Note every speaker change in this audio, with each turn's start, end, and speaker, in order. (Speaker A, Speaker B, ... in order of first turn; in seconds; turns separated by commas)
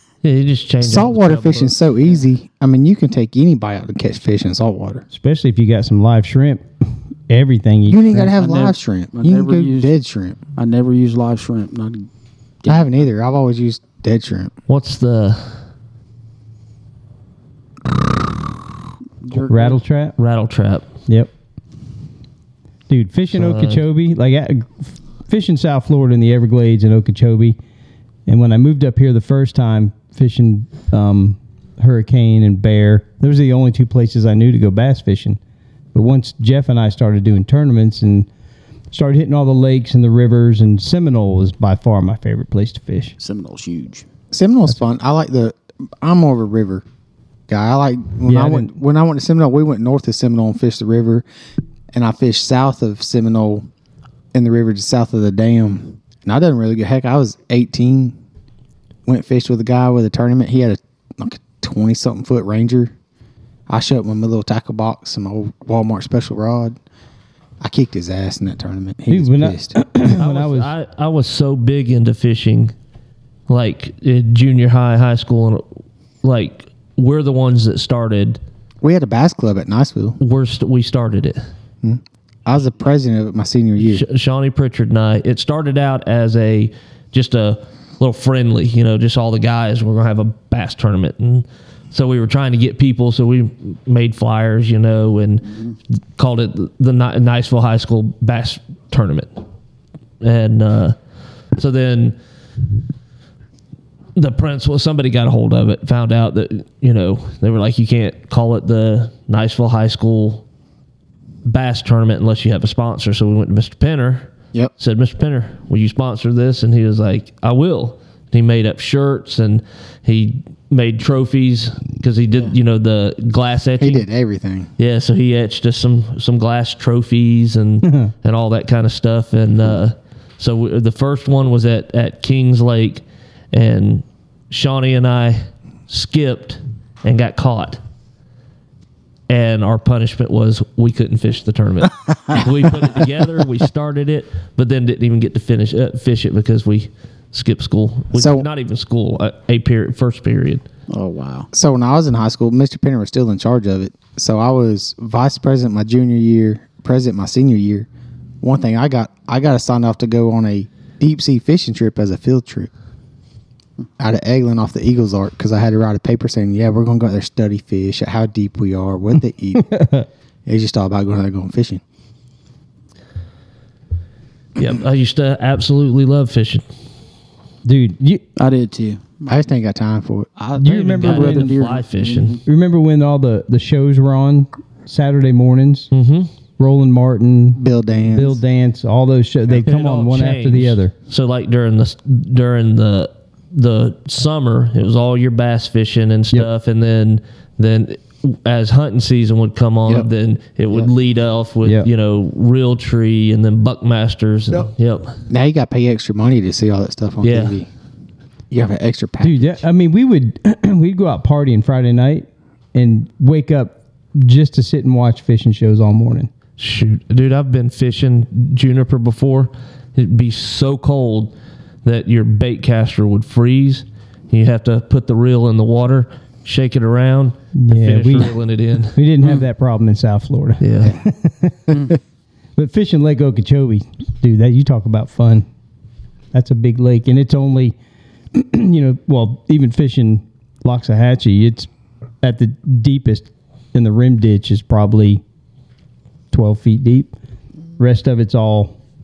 Speaker A: 0.2-1.8, Speaker B: 0.8-5.0, Speaker C: 5.1-8.3, Speaker B: 7.9-10.4, Speaker D: 8.3-9.9, Speaker D: 10.6-12.1, Speaker D: 12.6-12.9, Speaker B: 12.7-14.5, Speaker A: 14.7-15.6, Speaker D: 19.2-19.8, Speaker C: 19.3-20.1, Speaker A: 20.2-20.9, Speaker C: 22.9-27.6, Speaker A: 23.3-23.8, Speaker C: 28.3-35.4, Speaker C: 35.9-38.3, Speaker C: 38.9-43.1, Speaker D: 43.2-44.0, Speaker B: 44.3-46.8, Speaker B: 47.5-51.2, Speaker C: 48.3-48.7, Speaker B: 51.9-53.6, Speaker B: 54.3-58.1, Speaker B: 59.1-62.9, Speaker B: 63.7-66.8, Speaker B: 67.6-69.8, Speaker C: 69.1-70.7, Speaker A: 70.0-72.7, Speaker A: 73.5-75.6, Speaker A: 76.2-78.4, Speaker B: 78.8-80.2, Speaker A: 80.2-81.4, Speaker B: 81.8-84.0, Speaker A: 83.8-99.4, Speaker A: 100.2-101.0, Speaker A: 101.5-102.2, Speaker A: 104.1-110.4, Speaker A: 111.4-124.0, Speaker B: 123.8-124.7, Speaker A: 124.8-137.8, Speaker C: 127.8-128.1, Speaker A: 139.3-150.6, Speaker B: 148.1-148.5, Speaker D: 150.9-151.5, Speaker B: 151.5-157.9, Speaker B: 158.4-162.7, Speaker B: 164.0-169.8, Speaker C: 169.5-170.1, Speaker B: 170.4-171.8, Speaker A: 174.6-176.6, Speaker C: 177.6-178.2, Speaker D: 178.3-179.3, Speaker B: 179.3-180.3, Speaker D: 180.4-182.4, Speaker C: 180.6-181.7, Speaker A: 181.0-182.4, Speaker C: 182.4-185.9, Speaker A: 185.9-186.3, Speaker C: 186.6-187.6, Speaker B: 187.6-188.4, Speaker C: 188.1-190.9, Speaker A: 189.6-205.2, Speaker B: 205.3-207.7, Speaker A: 207.2-207.6, Speaker B: 208.5-209.6, Speaker C: 209.2-216.3, Speaker A: 216.6-221.3, Speaker A: 221.8-229.0, Speaker C: 227.5-228.3, Speaker C: 228.9-231.7, Speaker A: 230.6-230.9, Speaker C: 232.6-235.5, Speaker C: 236.3-237.7, Speaker C: 238.3-241.7, Speaker C: 242.2-245.2, Speaker C: 246.3-247.1, Speaker C: 247.8-248.8